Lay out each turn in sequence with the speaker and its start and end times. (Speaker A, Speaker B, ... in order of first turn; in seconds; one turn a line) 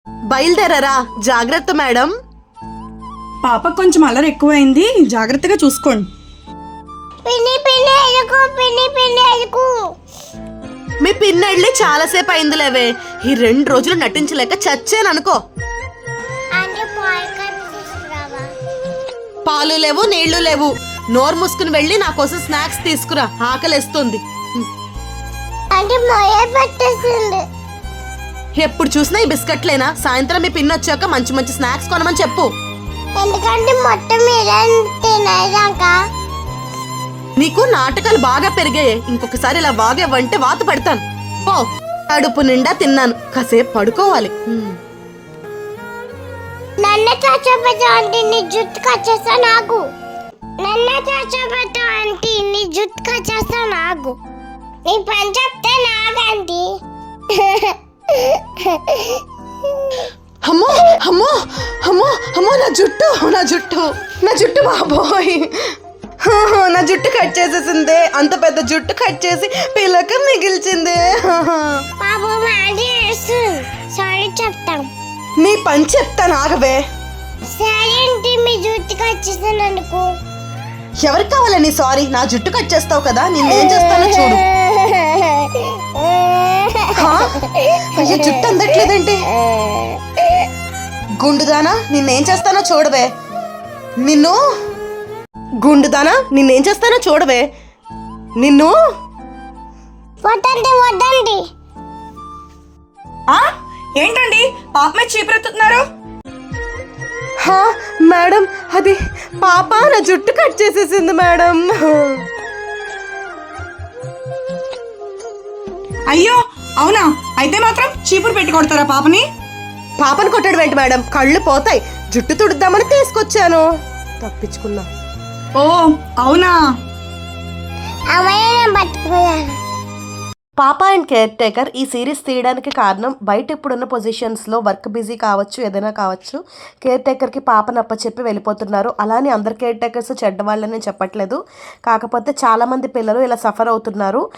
Speaker A: 0.3-2.1
Speaker B: 3.4-6.1
Speaker C: 7.3-9.7
Speaker A: 11.0-15.4
Speaker C: 16.6-18.5
Speaker A: 19.4-24.7
Speaker C: 25.7-27.4
Speaker A: 28.6-32.5
Speaker C: 33.2-35.9
Speaker A: 37.4-44.8
Speaker C: 46.8-49.8
Speaker C: 50.6-54.2
Speaker C: 54.9-56.6
Speaker C: 57.3-59.2
Speaker A: 60.4-71.8
Speaker C: 72.0-74.9
Speaker A: 75.4-76.8
Speaker C: 77.5-80.1
Speaker A: 81.0-84.4
Speaker C: 83.5-88.9
Speaker A: 87.0-89.3
Speaker C: 89.4-90.0
Speaker A: 91.2-93.1
Speaker A: 94.0-94.4
Speaker A: 95.6-97.4
Speaker A: 98.4-98.7
Speaker C: 100.2-101.4
Speaker B: 103.3-105.8
Speaker A: 107.4-112.2
Speaker B: 116.1-119.2
Speaker A: 120.0-123.6
Speaker A: 124.2-124.9
Speaker B: 125.6-126.6
Speaker C: 128.1-129.4
Speaker A: 130.6-144.2